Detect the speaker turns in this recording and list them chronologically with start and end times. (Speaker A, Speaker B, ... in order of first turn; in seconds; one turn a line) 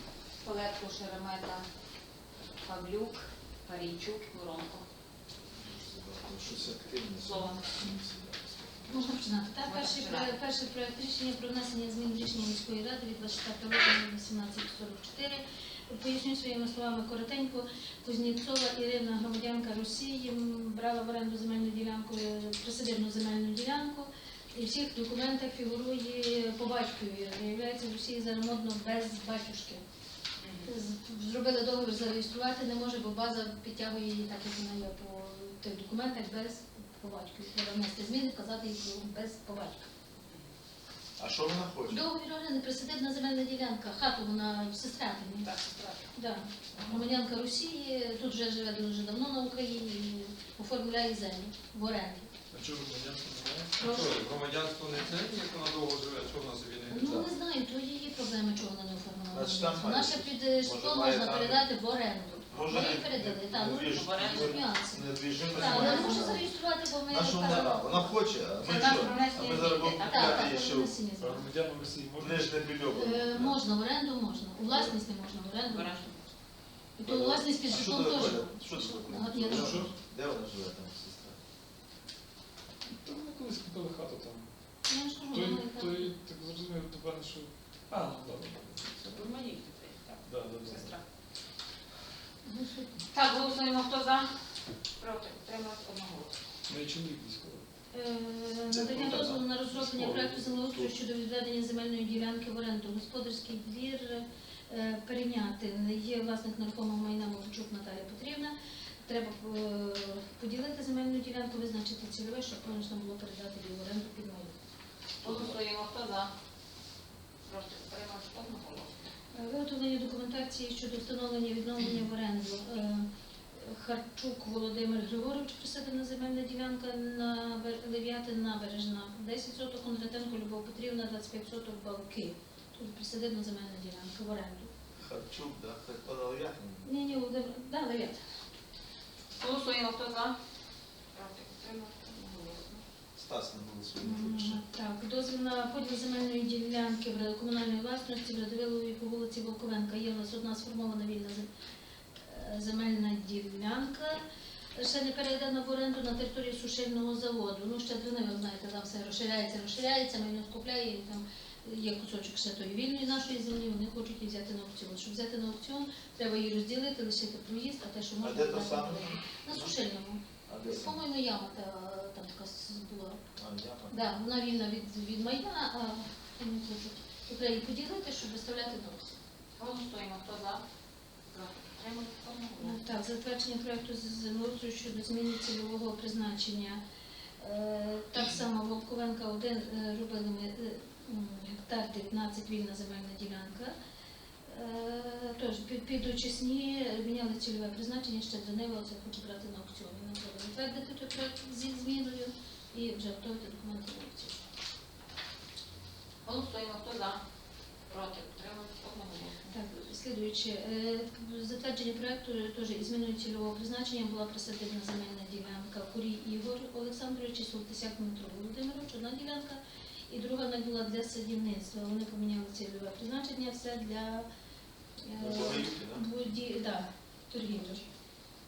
Speaker A: 0.4-1.6
Speaker A: 2.5-4.8
Speaker B: 5.5-9.1
Speaker A: 7.2-7.7
Speaker C: 8.9-29.8
Speaker A: 9.6-10.3
Speaker A: 30.4-30.7
Speaker C: 30.6-39.9
Speaker B: 41.2-42.0
Speaker C: 41.9-45.5
Speaker A: 45.4-46.1
Speaker C: 46.1-52.3
Speaker B: 46.7-47.1
Speaker D: 52.5-53.7
Speaker E: 52.5-57.0
Speaker C: 53.8-54.2
Speaker C: 56.9-68.1
Speaker B: 56.9-57.3
Speaker B: 59.3-61.6
Speaker B: 62.5-66.5
Speaker A: 63.9-64.6
Speaker A: 65.7-66.3
Speaker B: 67.0-70.9
Speaker A: 68.6-70.5
Speaker C: 68.8-69.1
Speaker C: 70.0-71.5
Speaker D: 71.2-72.5
Speaker B: 72.2-73.6
Speaker C: 72.9-76.0
Speaker A: 75.7-76.3
Speaker C: 77.0-79.9
Speaker B: 77.0-81.4
Speaker D: 79.5-79.9
Speaker D: 83.0-84.5
Speaker C: 84.9-86.1
Speaker D: 85.3-88.6
Speaker A: 89.0-91.0
Speaker D: 90.2-90.8
Speaker C: 92.5-92.9
Speaker A: 93.1-94.3
Speaker A: 95.0-96.4
Speaker D: 96.7-97.6
Speaker C: 97.9-114.5
Speaker B: 98.7-100.9
Speaker A: 115.2-116.3
Speaker B: 115.2-115.5
Speaker A: 117.5-119.1
Speaker C: 119.3-134.7
Speaker B: 135.0-136.8
Speaker C: 136.8-138.2
Speaker A: 139.3-140.3
Speaker A: 141.1-142.8
Speaker B: 143.2-144.6
Speaker C: 144.0-151.5
Speaker C: 152.2-173.2
Speaker B: 168.2-169.7
Speaker B: 170.5-171.0
Speaker B: 173.4-173.9
Speaker C: 173.9-179.1
Speaker A: 179.6-180.6
Speaker A: 181.3-182.8
Speaker C: 182.6-186.8
Speaker C: 187.4-193.7
Speaker C: 194.4-204.4
Speaker A: 206.2-207.2
Speaker A: 207.9-209.6
Speaker C: 209.5-224.3
Speaker C: 225.0-227.8
Speaker B: 225.2-226.0